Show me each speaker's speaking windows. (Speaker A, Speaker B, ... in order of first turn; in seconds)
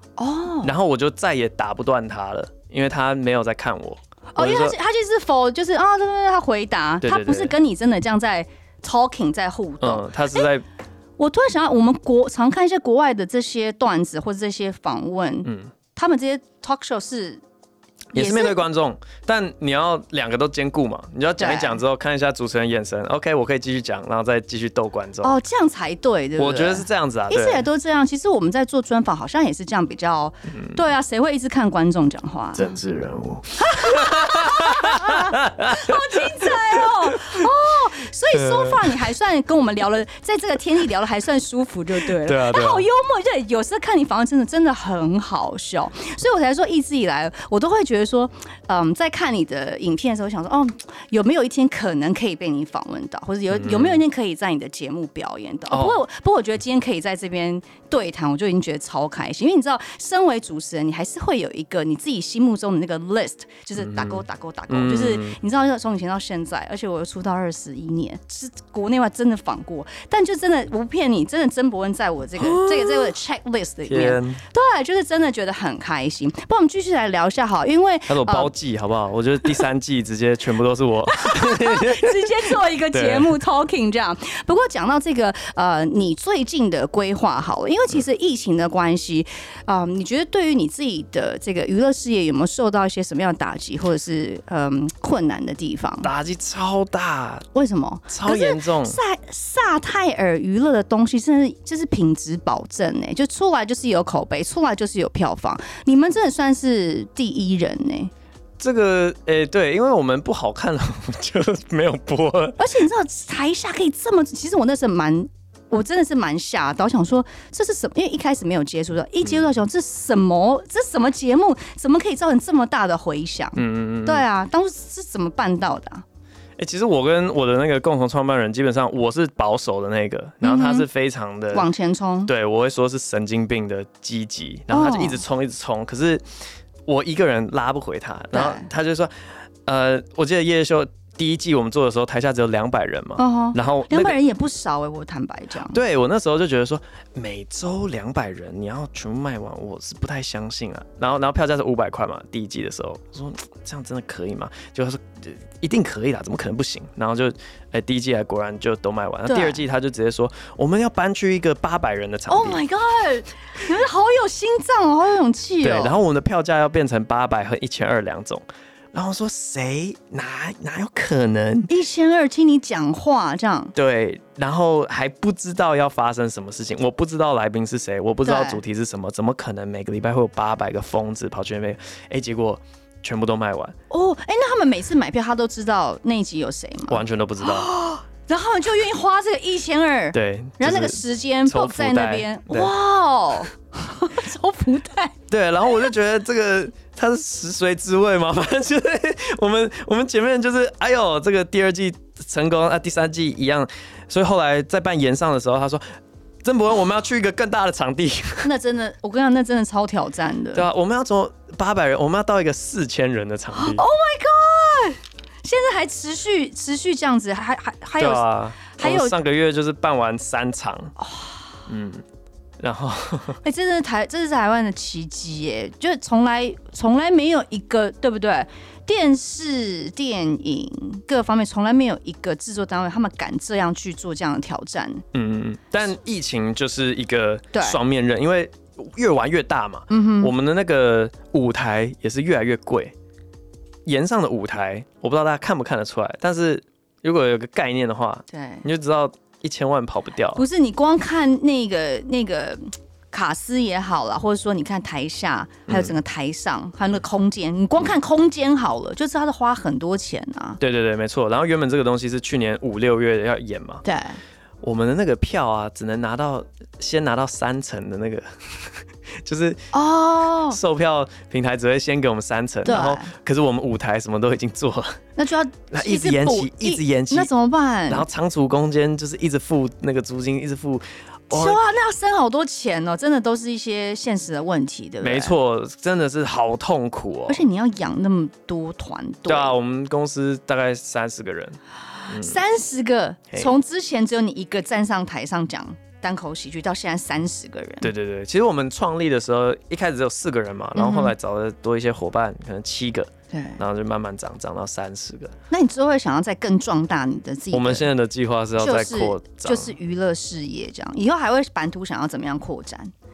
Speaker A: 0.2-0.7, 4.3-10.5, 11.2-17.4, 18.1-18.6, 21.4-21.8, 25.2-32.7, 33.6-78.5, 81.1-96.1, 97.5-108.1, 112.6-126.0, 130.4-130.8, 131.5-132.3, 134.7-135.2, 138.3-138.7, 143.2-145.8, 159.2-159.6, 162.3-165.9, 171.7-173.7, 178.2-178.6, 183.9-195.1, 208.4-210.7, 213.5-219.2, 221.0-221.4, 223.4-235.0, 237.5-237.8, 239.9-240.3, 248.3-248.6, 250.3-260.6, 263.8-264.2, 269.7-270.6, 272.6-273.1, 275.2-278.1, 281.3-285.3, 287.3-289.6, 292.0-297.9, 300.8-301.1, 303.3-303.6, 305.5-307.9, 308.6-312.9
Speaker B: 0.6-4.7, 7.0-7.5, 9.8-10.7, 15.4-15.7, 18.1-25.3, 26.4-27.6, 32.5-37.5, 38.3-38.9, 42.2-42.9, 53.5-54.0, 55.7-56.0, 63.8-65.4, 72.4-73.2, 73.9-74.4, 78.1-83.3, 96.0-97.5, 98.1-99.0, 108.6-112.6, 123.5-124.2, 126.6-131.7, 132.3-136.2, 136.8-144.2, 145.7-162.6, 165.6-171.7, 173.7-183.8, 186.9-187.7, 190.1-192.7, 195.3-208.5, 210.5-213.8, 218.0-220.9, 221.7-222.0, 222.6-223.4, 235.1-242.9, 243.8-250.4, 255.7-255.9, 260.6-263.8, 264.6-269.7, 270.5-275.0, 275.7-277.3, 277.9-281.6, 285.0-287.4, 289.3-292.4, 297.8-305.3, 307.5-309.7